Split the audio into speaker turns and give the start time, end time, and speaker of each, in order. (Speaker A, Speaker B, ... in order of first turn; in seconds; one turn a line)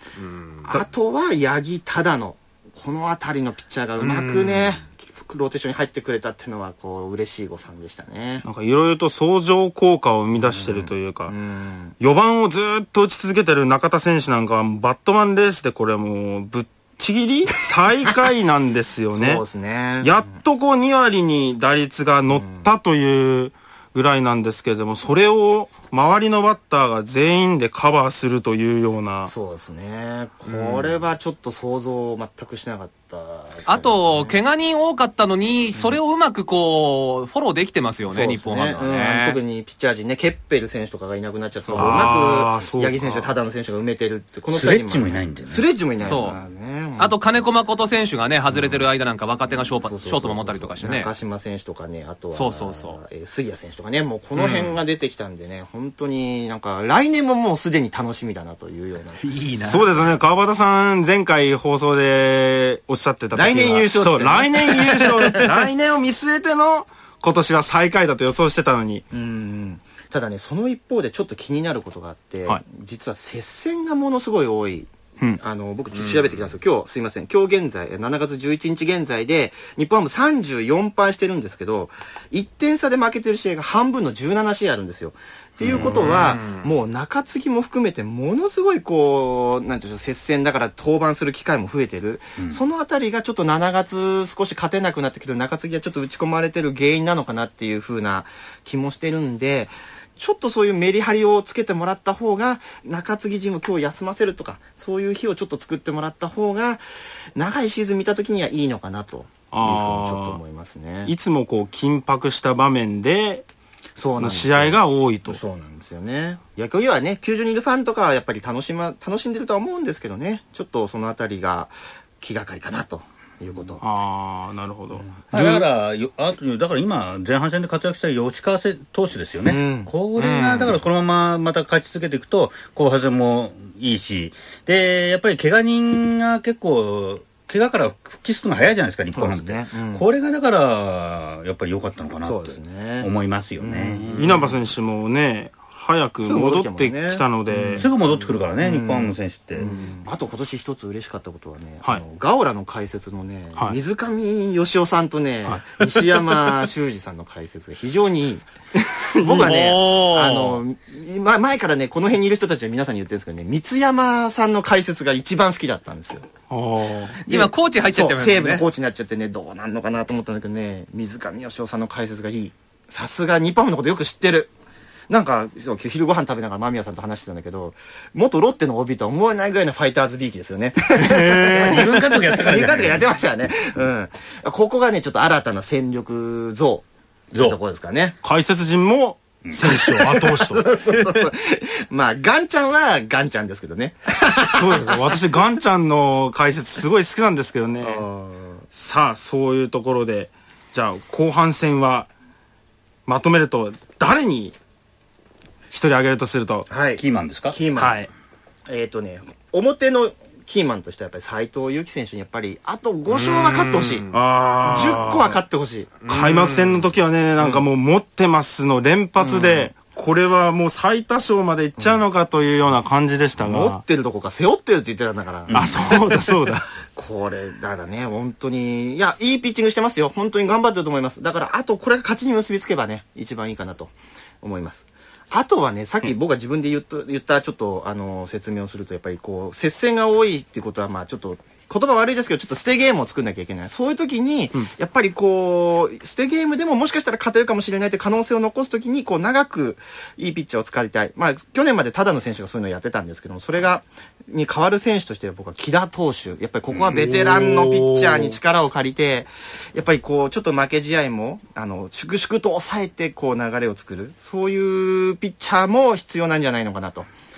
Speaker A: 0.2-0.8
Speaker B: 0.7-8.4
Speaker A: 4.0-4.8
Speaker C: 8.4-11.3
Speaker B: 11.3-12.0
Speaker C: 12.0-19.4
Speaker B: 19.1-20.2
Speaker C: 20.0-29.3
Speaker B: 22.4-22.7
Speaker B: 29.2-34.4
Speaker A: 30.5-31.0
Speaker A: 33.7-39.4
Speaker B: 35.7-36.0
Speaker B: 38.1-47.1
Speaker A: 41.6-42.1
Speaker C: 41.8-43.3
Speaker D: 44.5-46.2
Speaker A: 46.0-46.4
Speaker A: 47.0-51.1
Speaker B: 49.5-59.3
Speaker A: 52.3-53.0
Speaker A: 54.4-54.8
Speaker A: 59.2-59.9
Speaker C: 59.6-69.0
Speaker B: 63.3-65.5
Speaker B: 69.1-106.8
Speaker A: 75.9-76.4
Speaker D: 85.6-86.3
Speaker A: 85.7-86.7
Speaker B: 107.3-111.1
Speaker C: 109.5-110.4
Speaker C: 111.0-113.5
Speaker B: 114.0-123.8
Speaker C: 114.2-115.4
Speaker C: 123.8-125.6
Speaker B: 125.0-125.6
Speaker D: 125.3-144.5
Speaker B: 129.4-129.9
Speaker A: 130.2-130.8
Speaker B: 139.2-140.1
Speaker B: 142.2-144.5
Speaker C: 144.2-147.9
Speaker B: 146.2-158.4
Speaker D: 147.8-149.7
Speaker C: 158.8-159.6
Speaker B: 159.2-166.3
Speaker A: 159.3-160.6
Speaker C: 166.5-167.2
Speaker B: 167.3-174.5
Speaker A: 167.3-168.7
Speaker B: 175.1-186.8
Speaker C: 180.9-182.0
Speaker D: 181.5-183.0
Speaker D: 187.3-187.6
Speaker B: 187.4-188.2
Speaker C: 188.2-190.7
Speaker B: 189.6-195.3
Speaker C: 194.5-198.0
Speaker B: 197.8-198.7
Speaker C: 198.7-202.1
Speaker C: 203.1-204.6
Speaker C: 205.7-206.7
Speaker B: 206.7-208.0
Speaker D: 207.0-207.6
Speaker C: 207.8-208.1
Speaker B: 208.7-214.1
Speaker A: 213.1-214.1
Speaker C: 214.1-215.4
Speaker B: 214.6-215.9
Speaker A: 216.0-216.9
Speaker C: 216.1-223.8
Speaker B: 217.4-217.6
Speaker B: 219.2-219.7
Speaker B: 223.4-226.2
Speaker D: 225.5-226.0
Speaker C: 225.5-226.7
Speaker B: 226.9-267.1
Speaker C: 256.9-258.4